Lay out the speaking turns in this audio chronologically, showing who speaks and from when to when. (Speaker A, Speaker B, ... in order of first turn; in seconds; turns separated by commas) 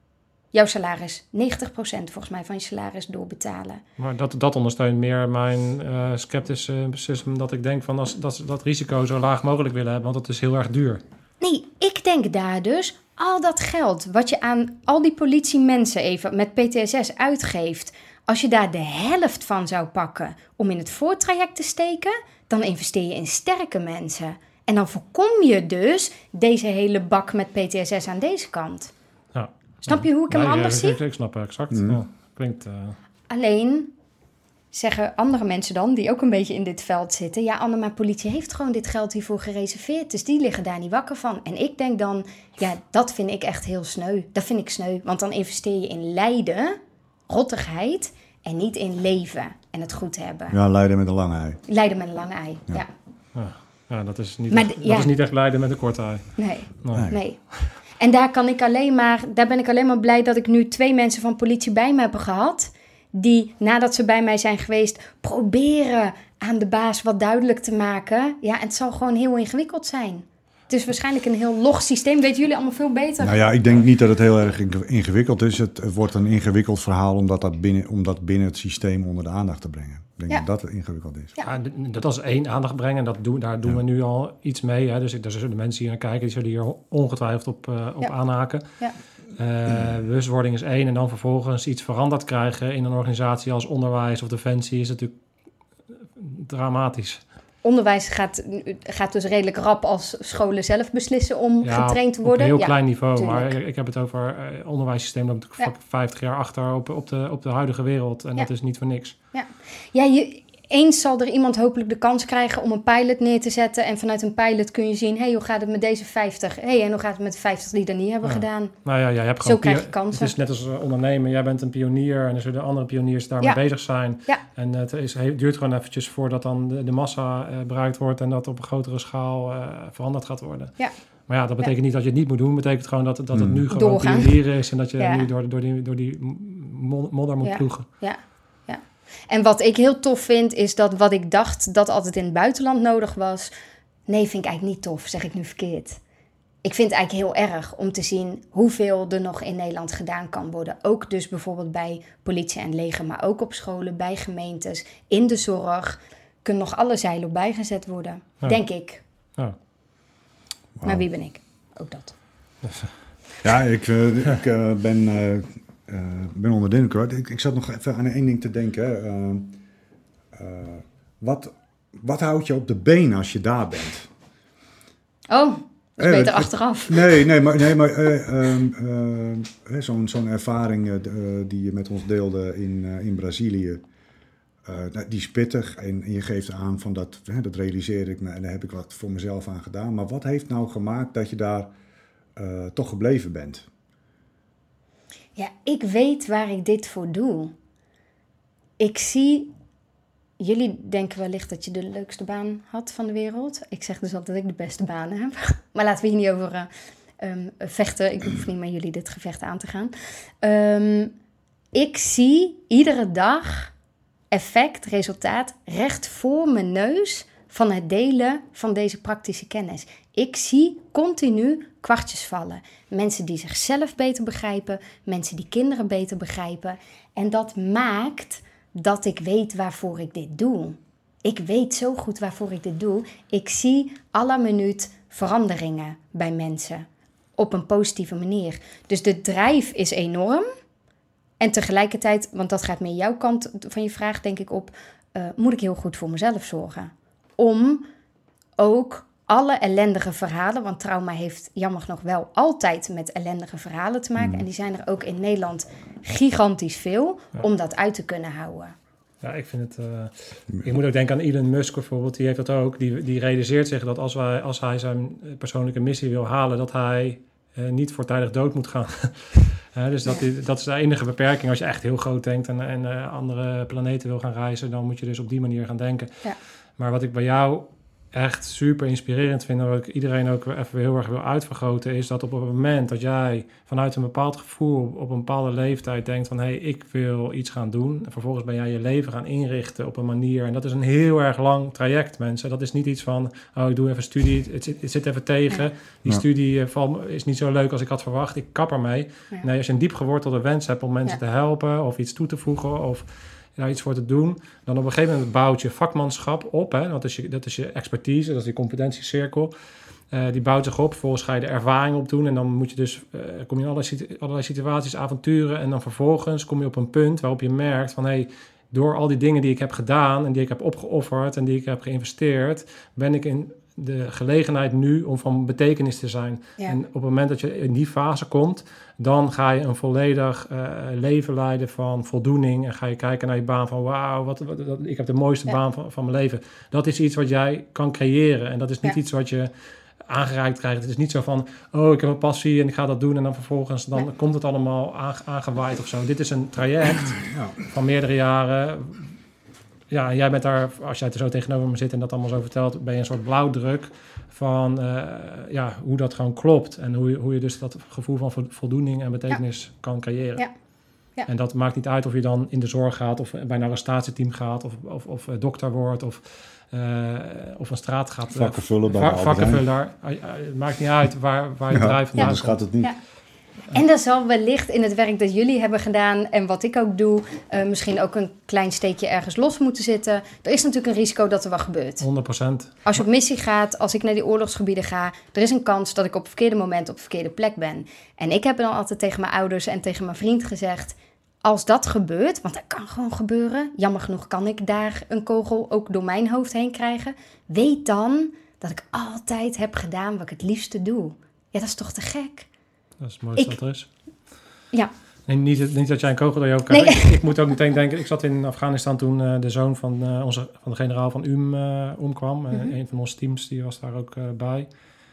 Speaker A: 0.5-3.8, Speaker B: 4.0-11.0, Speaker A: 11.4-28.9, Speaker B: 29.3-33.0, Speaker A: 29.9-31.0, Speaker C: 31.7-32.0, Speaker A: 33.3-33.9, Speaker A: 34.7-50.6, Speaker C: 50.5-51.6, Speaker A: 51.7-52.9, Speaker B: 53.3-57.1, Speaker A: 54.5-55.1, Speaker A: 56.4-57.4, Speaker C: 56.9-57.2, Speaker A: 58.0-73.5, Speaker C: 73.2-81.3, Speaker B: 81.4-88.6, Speaker B: 89.3-95.1, Speaker B: 96.2-97.2, Speaker A: 97.6-103.5, Speaker B: 101.6-109.1, Speaker A: 109.3-118.7, Speaker B: 118.2-137.8, Speaker A: 119.4-120.3, Speaker C: 133.3-133.6, Speaker A: 133.7-134.4, Speaker A: 135.0-135.2, Speaker A: 137.4-143.5, Speaker A: 144.1-146.0, Speaker A: 146.6-159.0, Speaker C: 160.8-161.1, Speaker A: 160.8-162.1, Speaker C: 163.4-169.6, Speaker C: 170.3-174.1, Speaker A: 175.3-177.3, Speaker C: 176.0-183.8, Speaker C: 184.6-191.7, Speaker C: 192.3-193.7, Speaker A: 195.3-197.5, Speaker A: 198.8-199.5, Speaker A: 200.4-206.7, Speaker A: 207.2-211.1, Speaker A: 211.7-213.7, Speaker A: 214.3-240.5, Speaker A: 241.4-247.9, Speaker A: 248.6-258.7, Speaker C: 254.2-254.4, Speaker B: 259.2-276.2, Speaker B: 276.8-309.5, Speaker B: 310.1-339.5, Speaker B: 340.1-349.1, Speaker C: 347.2-347.6, Speaker B: 349.9-360.4, Speaker B: 361.3-372.6, Speaker C: 368.3-369.6, Speaker C: 371.7-372.9, Speaker A: 372.2-373.0, Speaker A: 373.7-382.0, Speaker B: 382.0-382.9, Speaker A: 382.8-402.5, Speaker B: 403.0-403.9, Speaker B: 405.3-414.7, Speaker A: 406.7-407.1